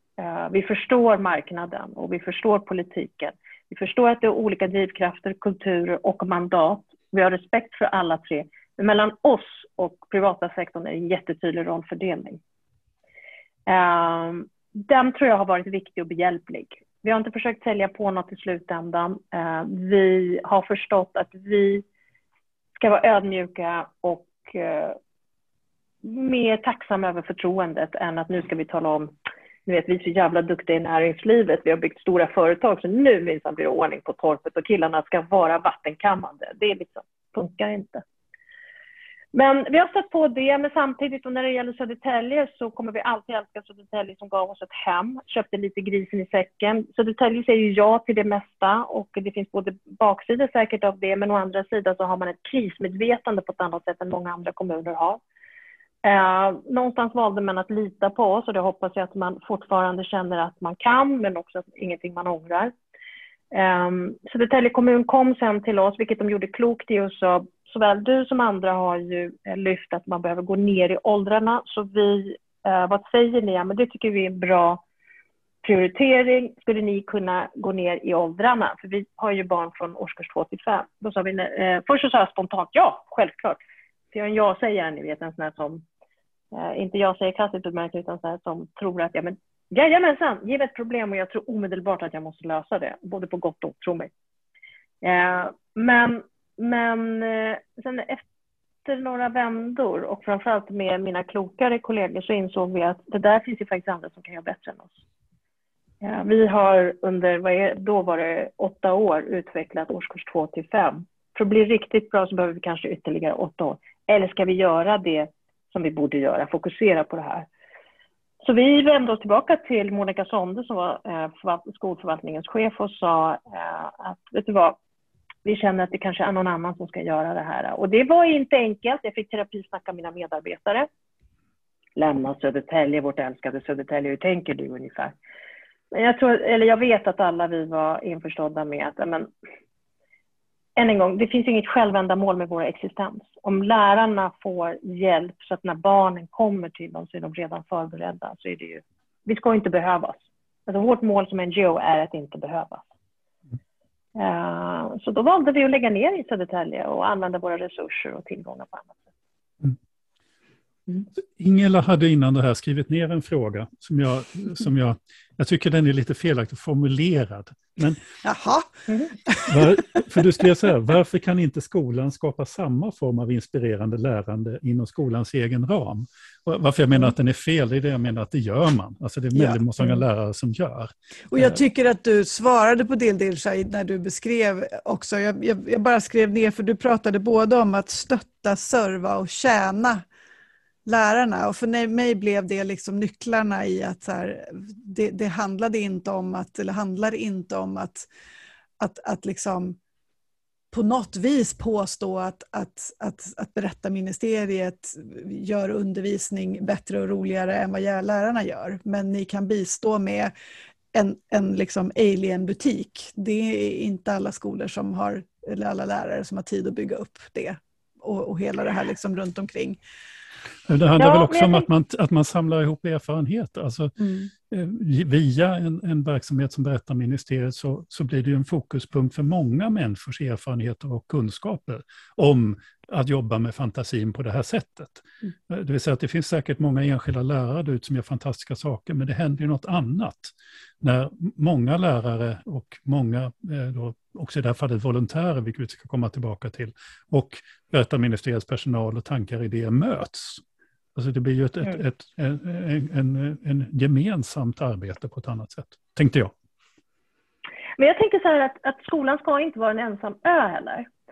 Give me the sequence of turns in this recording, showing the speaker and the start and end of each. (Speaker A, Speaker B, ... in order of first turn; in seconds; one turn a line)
Speaker A: 0.2-12.4
Speaker A: 13.7-21.8
Speaker A: 22.8-25.0
Speaker A: 26.0-29.1
Speaker A: 29.6-38.0
Speaker A: 39.3-55.2
Speaker A: 56.0-62.7
Speaker A: 63.5-74.8
Speaker A: 75.6-83.6
Speaker A: 84.1-85.8
Speaker A: 86.5-94.1
Speaker A: 95.0-98.2
Speaker A: 98.8-105.0
Speaker A: 106.0-117.5
Speaker A: 118.4-124.8
Speaker A: 125.4-130.9
Speaker A: 132.0-135.1
Speaker A: 135.9-139.3
Speaker A: 140.8-152.8
Speaker A: 154.1-159.0
Speaker B: 161.2-168.0
Speaker C: 168.2-168.7
Speaker A: 168.9-169.1
Speaker C: 169.2-169.8
Speaker B: 169.4-181.6
Speaker C: 179.3-180.0
Speaker C: 181.3-190.0
Speaker C: 190.8-198.1
Speaker C: 198.8-199.8
Speaker C: 200.7-210.3
Speaker C: 210.9-219.8
Speaker B: 220.7-223.9
Speaker A: 221.0-221.7
Speaker C: 224.0-224.3
Speaker B: 224.5-250.4
Speaker B: 250.9-256.3
Speaker A: 257.8-260.9